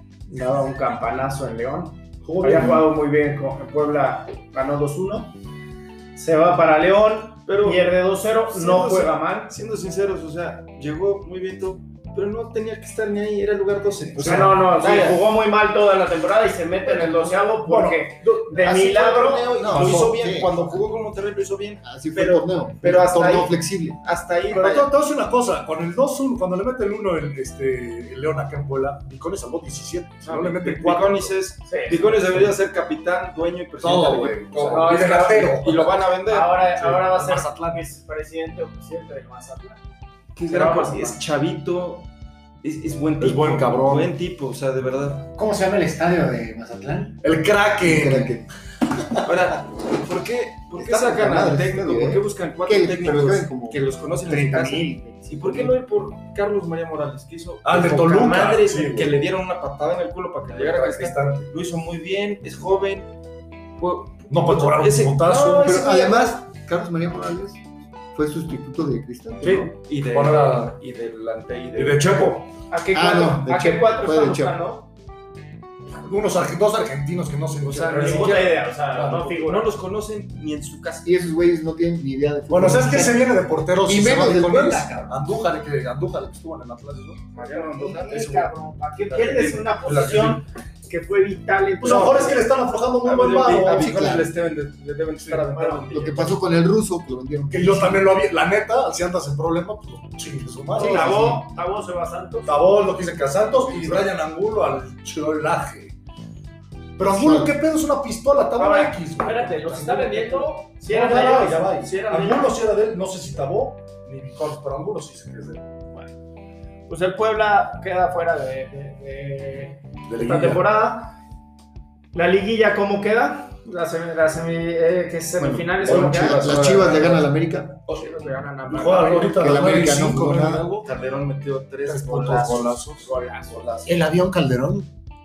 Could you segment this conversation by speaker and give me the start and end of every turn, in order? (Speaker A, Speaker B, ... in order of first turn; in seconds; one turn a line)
Speaker A: 0.3-5.3
Speaker B: 2.2-2.9
Speaker A: 6.2-9.5
Speaker C: 7.5-7.9
Speaker C: 8.4-15.2
Speaker B: 14.2-14.7
Speaker A: 14.2-19.7
Speaker B: 17.0-18.7
Speaker D: 18.6-20.9
Speaker B: 19.6-20.1
Speaker C: 19.6-22.6
Speaker D: 21.8-24.0
Speaker A: 22.8-24.9
Speaker C: 24.1-24.5
Speaker B: 24.5-31.4
Speaker C: 30.2-36.6
Speaker A: 31.7-32.5
Speaker B: 33.8-36.1
Speaker A: 34.7-35.6
Speaker A: 36.3-39.8
Speaker B: 36.6-37.8
Speaker C: 40.4-42.1
Speaker A: 40.5-41.2
Speaker C: 42.6-45.3
Speaker B: 43.2-44.1
Speaker E: 45.4-47.2
Speaker B: 47.2-48.4
Speaker D: 47.8-48.5
Speaker C: 49.2-63.1
Speaker D: 50.8-55.8
Speaker E: 54.3-55.0
Speaker B: 57.6-59.2
Speaker B: 60.5-61.5
Speaker C: 63.8-66.3
Speaker B: 64.3-65.9
Speaker D: 65.6-67.6
Speaker D: 68.1-69.7
Speaker B: 69.4-70.8
Speaker C: 69.8-72.5
Speaker B: 71.8-72.5
Speaker A: 72.7-74.9
Speaker D: 72.9-74.6
Speaker B: 76.0-79.3
Speaker C: 77.6-81.1
Speaker A: 77.9-79.7
Speaker D: 81.0-83.3
Speaker B: 82.5-87.3
Speaker D: 83.8-85.1
Speaker C: 87.3-90.4
Speaker A: 87.3-92.5
Speaker B: 91.8-94.0
Speaker C: 93.0-96.4
Speaker D: 93.7-94.3
Speaker A: 95.3-96.1
Speaker D: 95.9-98.1
Speaker B: 97.5-101.4
Speaker A: 100.8-102.6
Speaker D: 100.8-101.4
Speaker B: 102.5-106.0
Speaker B: 107.0-115.7
Speaker D: 107.0-107.5
Speaker A: 108.6-112.5
Speaker A: 116.9-121.1
Speaker B: 120.1-120.7
Speaker A: 122.1-126.5
Speaker D: 125.4-127.8
Speaker C: 125.7-127.3
Speaker C: 127.9-128.4
Speaker A: 127.9-129.4
Speaker B: 128.7-130.9
Speaker C: 128.9-129.2
Speaker D: 129.3-130.7
Speaker C: 130.8-134.0
Speaker B: 131.9-133.0
Speaker A: 133.0-133.6
Speaker E: 133.8-134.9